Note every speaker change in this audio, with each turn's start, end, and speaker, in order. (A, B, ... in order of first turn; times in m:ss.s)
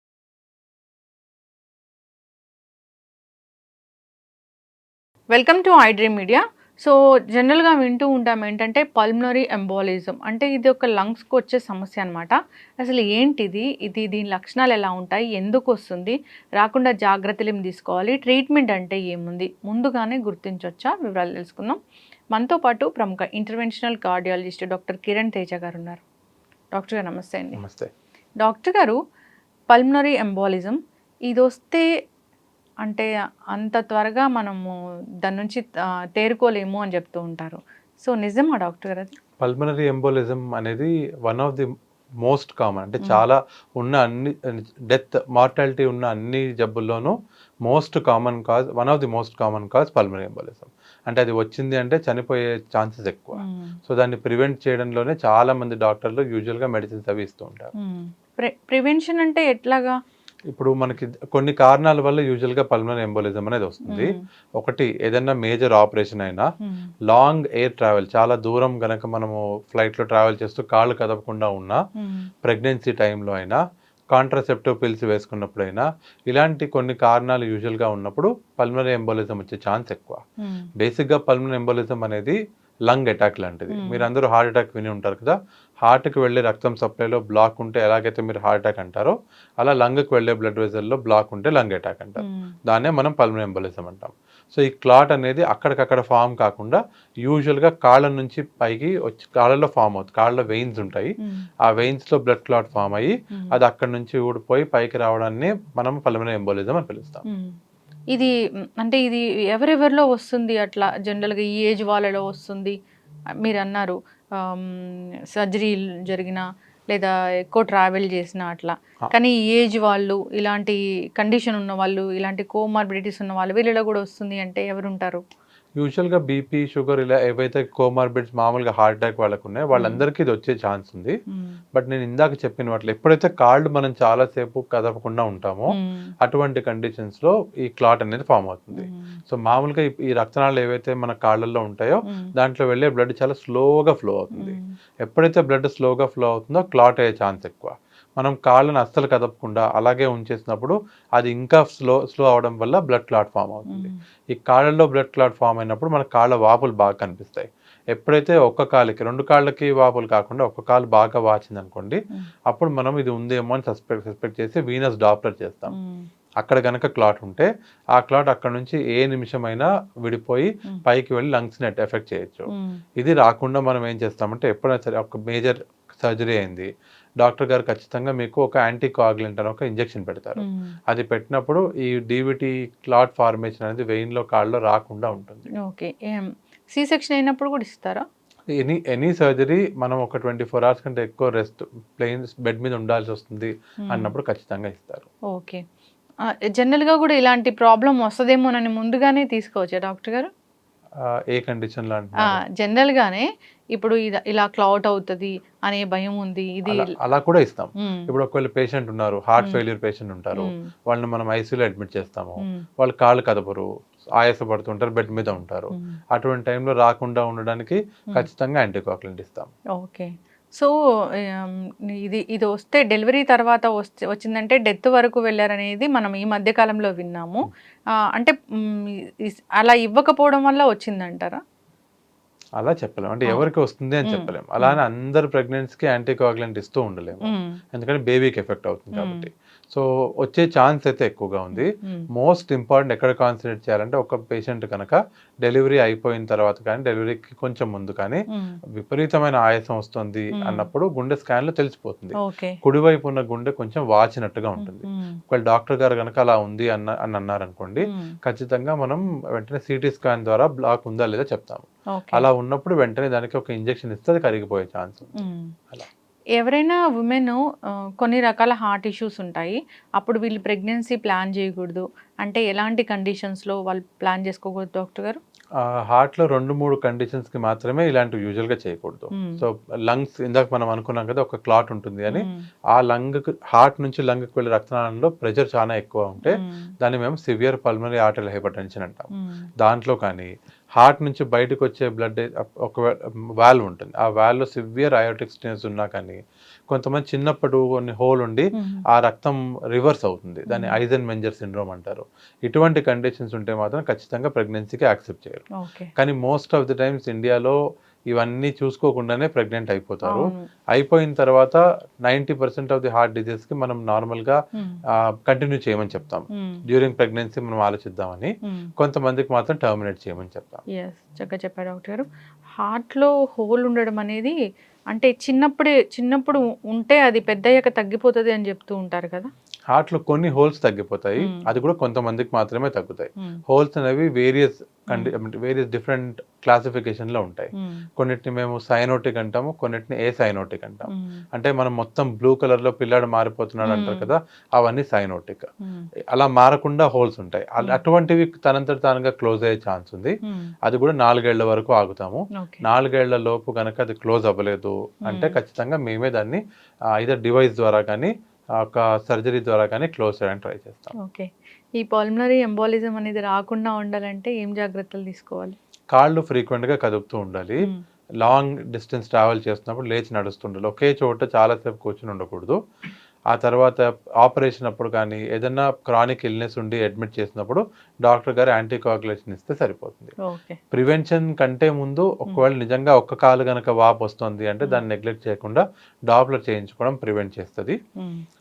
0:05.3-0:21.8 A
0:22.3-0:26.0 A
0:26.7-0:27.6 A
0:27.5-0:27.9 B
0:28.4-0:29.0 A
0:29.7-0:30.8 A
0:31.3-0:31.9 A
0:32.8-0:34.7 A
0:35.2-0:35.6 A
0:36.2-0:39.2 A
0:39.4-0:41.7 B
0:42.2-0:47.1 B
0:47.6-0:57.7 B
0:53.4-0:53.7 A
0:57.8-1:00.0 A
1:00.5-1:06.5 B
1:07.1-1:11.8 B
1:12.0-1:12.3 A
1:12.4-1:13.6 B
1:14.1-1:20.2 B
1:20.8-1:22.4 B
1:22.9-1:41.1 B
1:23.7-1:24.0 A
1:41.7-1:47.2 B
1:47.2-1:47.5 A
1:48.1-1:52.7 A
1:53.4-2:05.2 A
2:05.8-2:11.2 B
2:09.7-2:10.0 A
2:11.3-2:11.6 A
2:11.8-2:42.0 B
2:15.7-2:16.0 A
2:24.4-2:24.6 A
2:42.5-2:45.8 B
2:45.7-2:46.0 A
2:46.4-2:56.7 B
2:52.5-2:52.8 A
2:57.2-3:05.5 B
3:00.4-3:00.7 A
3:05.6-3:08.0 A
3:08.5-3:15.1 B
3:15.3-3:15.6 A
3:16.5-3:20.3 A
3:21.3-3:22.4 B
3:22.3-3:26.8 A
3:26.7-3:33.7 B
3:34.2-3:39.5 B
3:39.8-3:40.7 A
3:41.3-3:47.5 A
3:48.2-3:48.8 A
3:49.3-3:51.4 A
3:52.6-4:08.2 B
3:54.1-3:54.8 A
3:57.2-3:57.5 A
3:59.0-3:59.3 A
4:01.5-4:02.1 A
4:08.8-4:25.2 B
4:12.2-4:12.6 A
4:14.6-4:15.2 A
4:17.8-4:18.1 A
4:21.9-4:22.2 A
4:25.2-4:25.5 A
4:26.4-4:27.4 A
4:28.0-4:35.2 A
4:35.6-4:49.1 B
4:39.2-4:39.4 A
4:42.1-4:42.4 A
4:49.6-5:05.5 B
4:58.6-4:58.8 A
5:00.5-5:00.8 A
5:05.6-5:05.9 A
5:06.0-5:07.6 B
5:08.1-5:14.4 B
5:10.0-5:10.4 A
5:15.3-5:20.6 B
5:16.4-5:16.6 A
5:20.7-5:22.1 A
5:22.6-5:24.4 A
5:24.9-5:29.3 A
5:29.7-5:45.5 B
5:37.6-5:37.8 A
5:40.8-5:41.2 A
5:43.6-5:44.1 A
5:46.1-5:56.4 B
5:55.1-5:55.3 A
5:57.0-5:58.1 B
5:58.6-6:00.9 B
6:01.0-6:05.6 A
6:05.9-6:07.6 B
6:08.2-6:12.6 B
6:13.3-6:20.2 B
6:20.2-6:20.6 A
6:20.7-6:27.8 B